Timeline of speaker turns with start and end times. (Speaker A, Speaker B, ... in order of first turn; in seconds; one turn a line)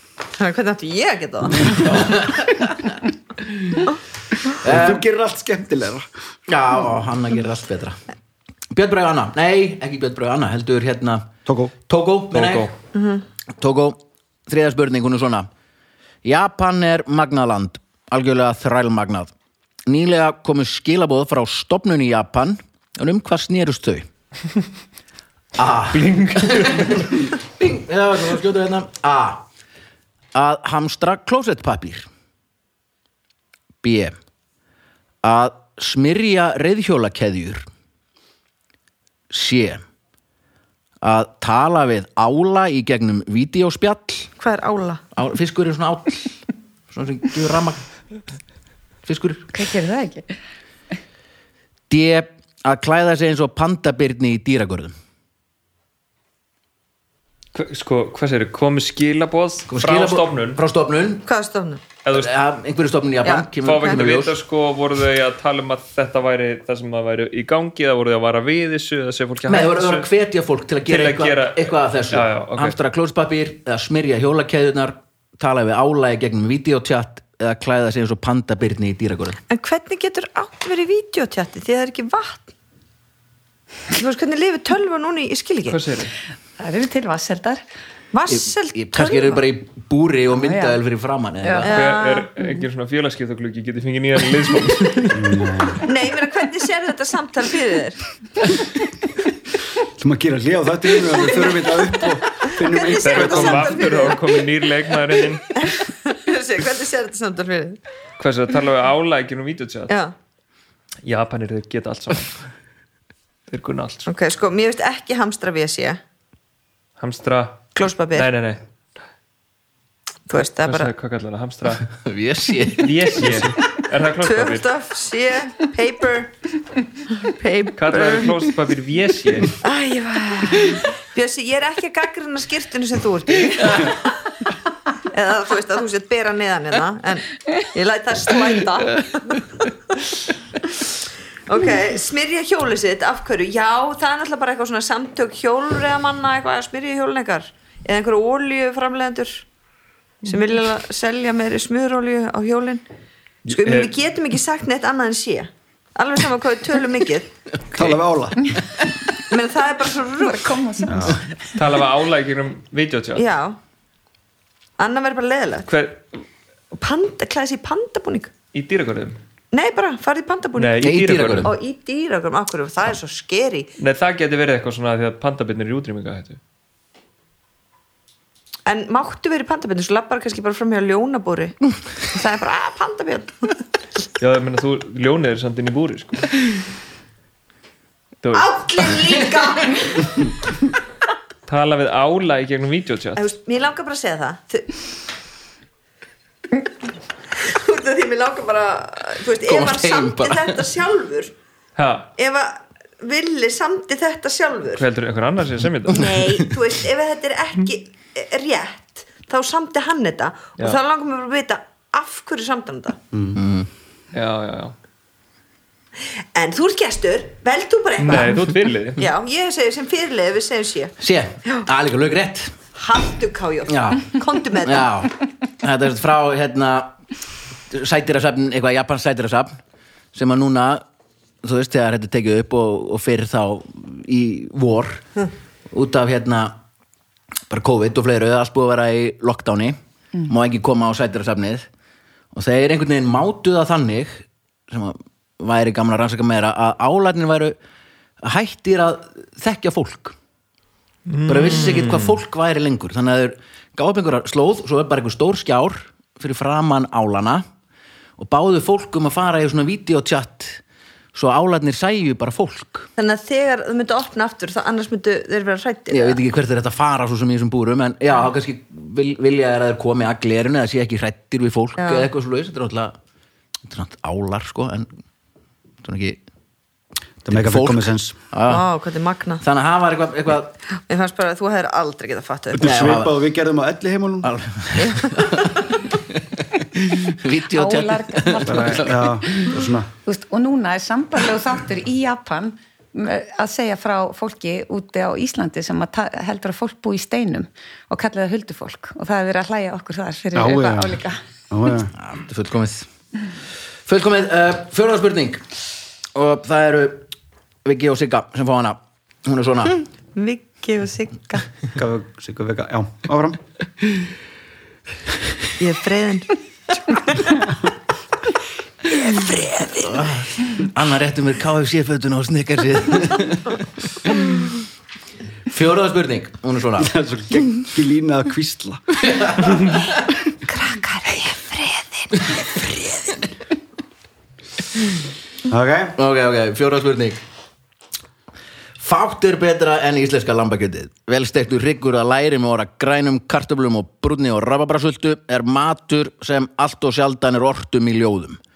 Speaker A: 0.4-1.8
Speaker B: 1.6-3.0
Speaker B: 4.6-5.0
Speaker C: 4.6-6.1
Speaker B: 6.5-8.0
Speaker B: 8.7-11.3
Speaker C: 11.4-11.7
Speaker B: 11.8-12.7
Speaker D: 12.3-12.7
Speaker A: 12.9-13.2
Speaker B: 13.6-15.5
Speaker B: 16.2-19.3
Speaker B: 19.9-24.1
Speaker B: 25.6-29.4
Speaker D: 25.9-27.2
Speaker B: 30.3-32.1
Speaker B: 33.8-34.1
Speaker B: 35.2-37.7
Speaker B: 39.3-39.8
Speaker B: 41.0-44.3
Speaker A: 44.4-45.0
Speaker B: 45.1-46.3
Speaker B: 46.9-47.8
Speaker B: 49.0-49.5
Speaker E: 49.5-50.3
Speaker B: 51.9-54.9
Speaker D: 57.5-60.6
Speaker B: 59.7-61.2
Speaker A: 61.2-61.8
Speaker D: 62.0-62.3
Speaker B: 62.1-64.4
Speaker A: 63.2-64.0
Speaker D: 63.5-70.1
Speaker B: 69.5-79.4
Speaker D: 70.8-72.8
Speaker A: 79.5-82.5
Speaker A: 83.9-85.8
Speaker D: 85.7-86.1
Speaker E: 86.6-87.6
Speaker A: 88.1-89.4
Speaker B: 88.3-91.8
Speaker E: 90.3-90.8
Speaker E: 91.4-91.7
Speaker D: 91.6-95.3
Speaker A: 91.6-92.3
Speaker C: 95.1-95.8
Speaker A: 95.8-98.0
Speaker C: 100.0-103.9
Speaker A: 102.4-104.4
Speaker D: 102.9-105.6
Speaker A: 105.5-107.8
Speaker D: 108.2-109.9
Speaker A: 109.9-110.1
Speaker D: 111.0-112.4
Speaker D: 113.5-114.1
Speaker A: 114.0-116.0
Speaker D: 117.0-118.6
Speaker A: 117.8-118.3
Speaker A: 120.3-120.9
Speaker D: 120.6-121.9
Speaker B: 121.9-123.5
Speaker D: 122.7-124.7
Speaker A: 124.2-126.3
Speaker A: 127.2-128.5
Speaker D: 127.8-129.6
Speaker A: 129.6-134.1
Speaker A: 135.1-139.4
Speaker A: 141.5-149.4
Speaker A: 150.2-152.8
Speaker A: 153.5-157.3
Speaker D: 153.5-153.9
Speaker C: 157.7-158.6
Speaker A: 159.3-160.8
Speaker E: 160.2-161.3
Speaker C: 160.8-161.2
Speaker D: 161.5-163.2
Speaker A: 163.2-163.6
Speaker A: 164.8-165.7
Speaker D: 165.7-166.2
Speaker A: 166.7-168.3
Speaker D: 168.5-169.2
Speaker A: 169.5-170.8
Speaker D: 170.6-171.5
Speaker B: 170.8-171.5
Speaker A: 171.4-173.7
Speaker D: 173.8-176.4
Speaker A: 178.7-183.5
Speaker D: 184.2-186.3
Speaker D: 188.2-188.5
Speaker A: 188.3-190.2
Speaker D: 191.5-193.2
Speaker A: 193.2-194.9
Speaker A: 197.3-201.3
Speaker B: 199.4-200.7
Speaker D: 201.8-202.1
Speaker A: 202.2-204.8
Speaker D: 204.8-206.2
Speaker A: 205.9-213.0
Speaker C: 213.1-213.4
Speaker B: 213.3-213.7
Speaker D: 214.1-214.7
Speaker A: 216.3-218.4
Speaker D: 218.0-219.1
Speaker A: 219.0-220.9
Speaker B: 221.0-222.6
Speaker A: 222.7-224.9
Speaker B: 223.7-226.9
Speaker B: 227.7-229.6
Speaker B: 230.1-230.8
Speaker B: 231.4-235.1
Speaker B: 235.7-236.6
Speaker B: 237.5-241.7
Speaker B: 242.3-247.6
Speaker B: 248.2-250.2
Speaker D: 251.1-252.2
Speaker B: 251.3-257.4
Speaker B: 258.2-260.6
Speaker B: 261.1-262.9
Speaker A: 263.0-266.2
Speaker B: 265.9-272.9
Speaker A: 271.8-272.1
Speaker B: 273.7-274.9
Speaker B: 275.8-276.2
Speaker C: 277.2-278.2
Speaker B: 277.2-278.7
Speaker A: 278.4-279.4
Speaker B: 279.4-280.6
Speaker A: 280.8-282.8
Speaker C: 282.5-284.3
Speaker B: 282.6-283.1
Speaker B: 284.2-289.5
Speaker A: 284.8-285.5
Speaker E: 287.5-289.5
Speaker C: 288.5-289.9
Speaker E: 290.0-301.2
Speaker C: 300.3-301.9
Speaker B: 301.9-302.9
Speaker B: 303.9-305.4
Speaker B: 306.1-307.1
Speaker B: 307.6-309.8
Speaker A: 310.1-311.5
Speaker C: 311.7-313.4
Speaker A: 315.6-317.4
Speaker A: 318.9-319.9
Speaker B: 319.6-324.2
Speaker B: 325.5-326.9
Speaker C: 326.8-329.2
Speaker B: 329.0-329.8
Speaker E: 330.5-332.0
Speaker C: 335.5-335.9
Speaker B: 336.0-337.2
Speaker B: 338.8-348.4